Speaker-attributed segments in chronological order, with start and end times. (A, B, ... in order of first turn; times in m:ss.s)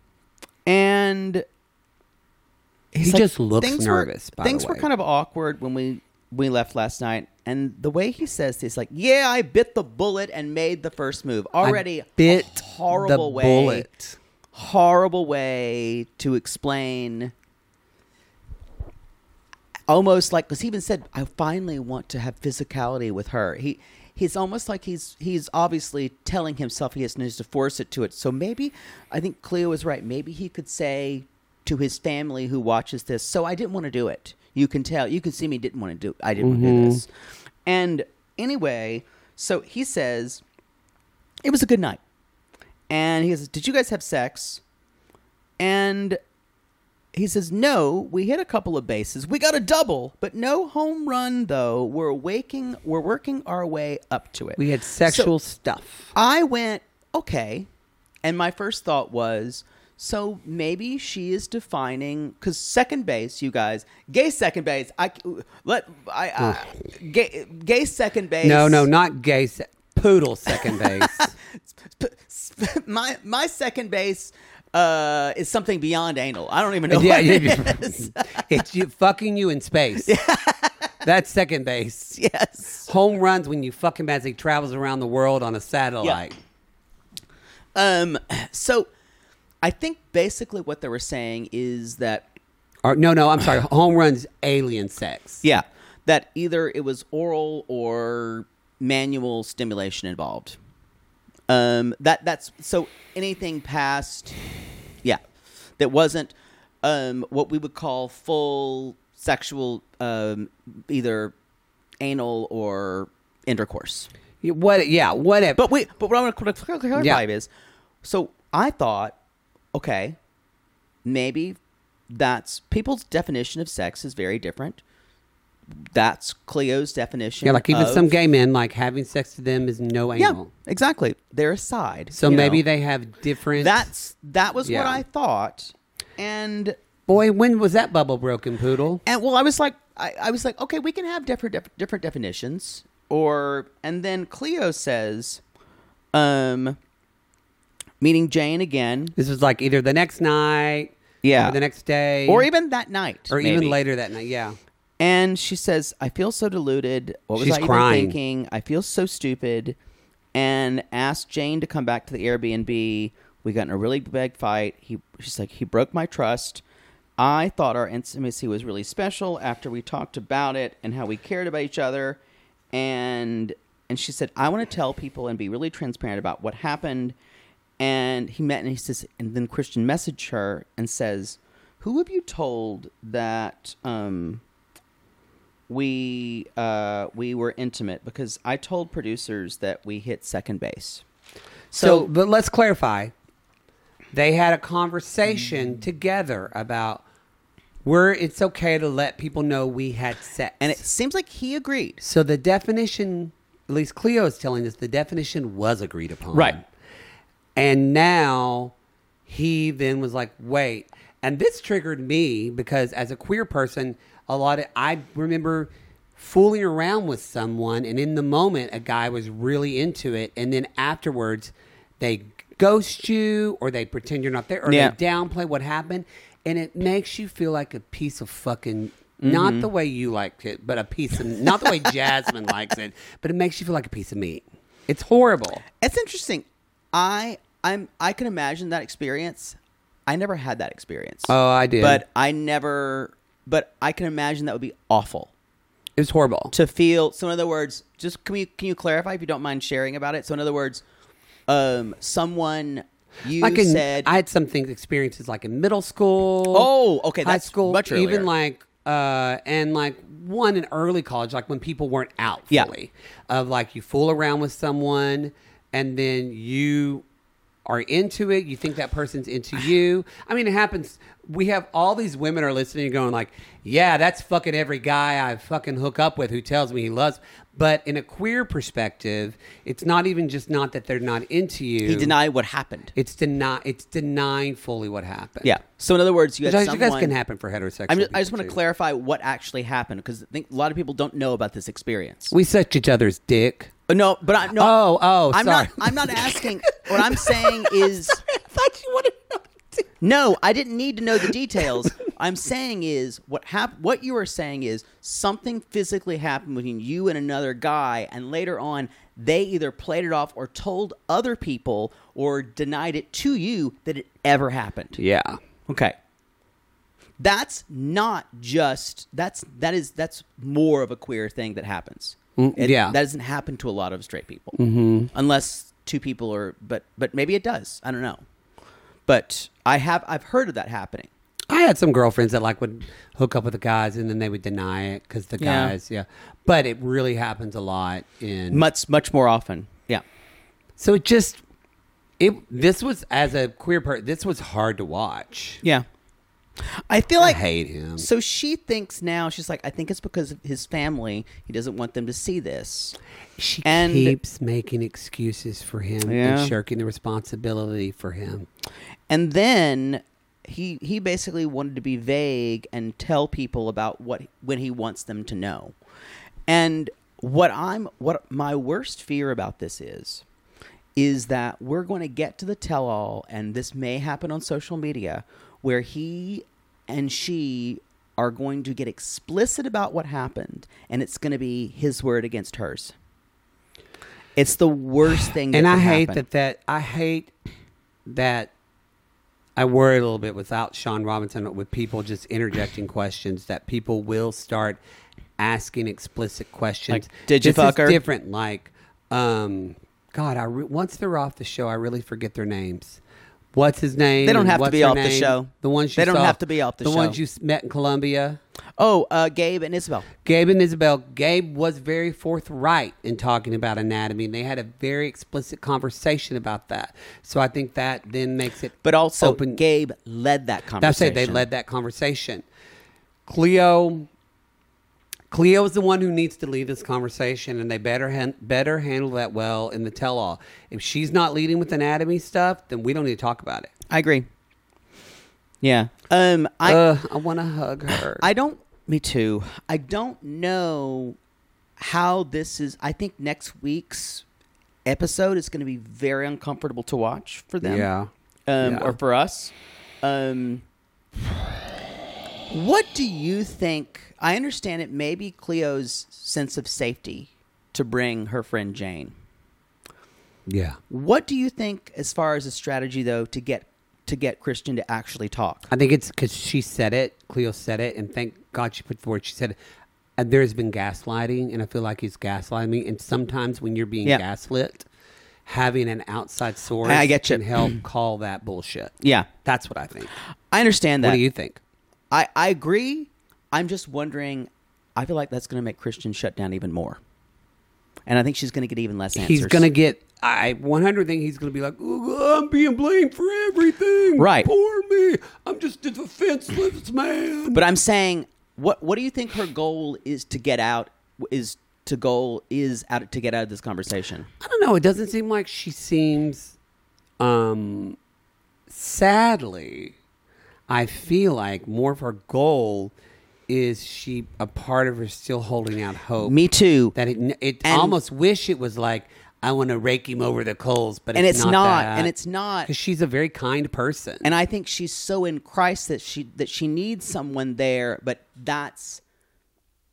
0:00.6-0:01.4 A
0:02.9-0:13.9 A
0:03.0-0:04.8 B
0:11.6-0:14.2 B
0:14.5-0:17.3 A
0:19.9-0:37.1 A
0:36.4-0:37.0 B
0:37.6-0:40.4 A
0:41.4-0:42.0 A
0:42.9-0:44.6 A
0:45.6-0:46.2 A
0:47.1-0:55.3 A
0:54.6-0:56.1 B
0:56.1-0:57.7 A
0:58.2-1:08.9 A
1:06.4-1:06.6 B
1:08.4-1:11.4 B
1:10.5-1:18.4 A
1:16.9-1:20.1 B
1:20.0-1:20.8 A
1:21.0-1:22.2 B
1:22.1-1:22.9 A
1:22.8-1:26.4 B
1:27.7-1:28.9 A
1:29.6-1:32.3 A
1:32.8-1:35.4 B
1:35.4-1:40.6 A
1:41.5-1:44.4 A
1:45.8-1:51.3 A
1:52.0-1:54.1 A
1:54.4-1:55.6 B
1:55.6-1:57.5 A
1:58.0-1:59.2 A
1:59.7-2:00.2 A
2:01.0-2:01.6 A
2:02.1-2:04.8 A
2:05.8-2:08.1 A
2:07.4-2:10.5 B
2:10.2-2:12.6 A
2:12.1-2:13.9 B
2:13.6-2:16.8 A
2:14.6-2:15.0 B
2:17.1-2:19.0 B
2:19.0-2:25.4 A
2:26.1-2:26.8 A
2:28.0-2:29.1 A
2:29.2-2:32.5 B
2:31.2-2:31.6 A
2:32.2-2:33.8 A
2:33.3-2:34.6 B
2:35.0-2:39.8 A
2:37.4-2:38.2 B
2:40.3-2:46.6 A
2:47.2-2:52.2 A
2:52.7-2:57.1 A
2:57.8-3:04.4 A
3:05.7-3:11.0 A
3:11.7-3:12.1 A
3:11.7-3:13.1 B
3:14.1-3:17.0 B
3:17.8-3:20.8 B
3:20.6-3:22.0 A
3:22.0-3:26.6 B
3:26.3-3:26.6 A
3:27.6-3:28.7 B
3:29.3-3:55.6 B
3:44.6-3:44.9 A
3:49.2-3:49.7 A
3:55.8-4:05.3 A
4:01.3-4:02.0 B
4:06.0-4:06.5 B
4:06.5-4:10.8 A
4:11.5-4:14.2 A
4:13.4-4:16.7 B
4:16.5-4:18.3 A
4:17.2-4:27.0 B
4:27.6-4:42.1 B
4:41.8-4:42.9 A
4:42.9-4:45.6 B
4:45.4-4:47.2 A
4:46.4-4:48.6 B
4:47.9-4:52.3 A
4:52.3-4:53.7 B
4:53.9-4:58.2 A
4:54.6-4:59.8 B
5:00.0-5:15.0 A
5:15.0-5:15.4 B
5:15.7-5:16.0 A
5:17.2-5:24.6 A
5:22.4-5:23.0 B
5:24.6-5:25.1 B
5:25.1-5:28.2 A
5:29.1-5:31.1 A
5:31.5-5:38.6 B
5:35.4-5:35.7 A
5:38.5-5:40.0 A
5:40.8-5:41.4 B
5:42.2-5:45.6 B
5:46.6-5:47.4 A
5:47.2-5:48.1 B
5:48.0-5:53.0 A
5:53.4-5:58.5 B
5:53.6-5:54.2 A
5:56.0-5:56.5 A
5:59.1-6:05.8 A
6:06.5-6:10.2 A
6:11.0-6:22.9 A
6:24.4-6:26.2 A
6:25.5-6:27.3 B
6:28.1-6:28.5 B
6:29.6-6:34.8 B
6:35.4-6:43.0 B
6:36.9-6:38.0 A
6:43.5-6:48.4 B
6:44.2-6:47.2 A
6:48.8-6:50.1 A
6:50.2-6:59.6 B
6:58.8-7:01.5 A
7:00.8-7:02.4 B
7:03.3-7:04.1 B
7:05.3-7:13.7 B
7:13.9-7:14.3 A
7:15.6-7:16.8 A
7:16.6-7:18.3 B
7:18.2-7:21.2 A
7:21.8-7:24.2 A
7:24.8-7:27.9 A
7:27.6-7:28.1 B
7:28.5-7:30.6 A
7:28.6-7:29.0 B
7:32.5-7:39.2 A
7:40.5-7:40.8 B
7:40.9-7:45.7 A
7:45.7-7:49.6 B
7:50.2-7:54.8 B
7:55.4-7:58.9 B
7:56.8-7:57.8 A
7:59.0-7:59.3 A
7:59.4-8:00.1 B
8:00.5-8:01.2 A
8:01.0-8:01.6 B
8:02.1-8:07.0 A
8:08.0-8:09.7 A
8:09.2-8:17.6 B
8:14.2-8:14.5 A
8:17.5-8:24.3 A
8:24.4-8:26.5 B
8:27.2-8:28.0 B
8:28.7-8:29.9 B
8:30.7-8:32.9 B
8:33.5-8:36.4 B
8:36.2-8:37.0 A
8:36.9-8:42.1 B
8:37.6-8:38.0 A
8:41.1-8:42.7 A
8:42.6-8:44.3 B
8:44.2-8:49.0 A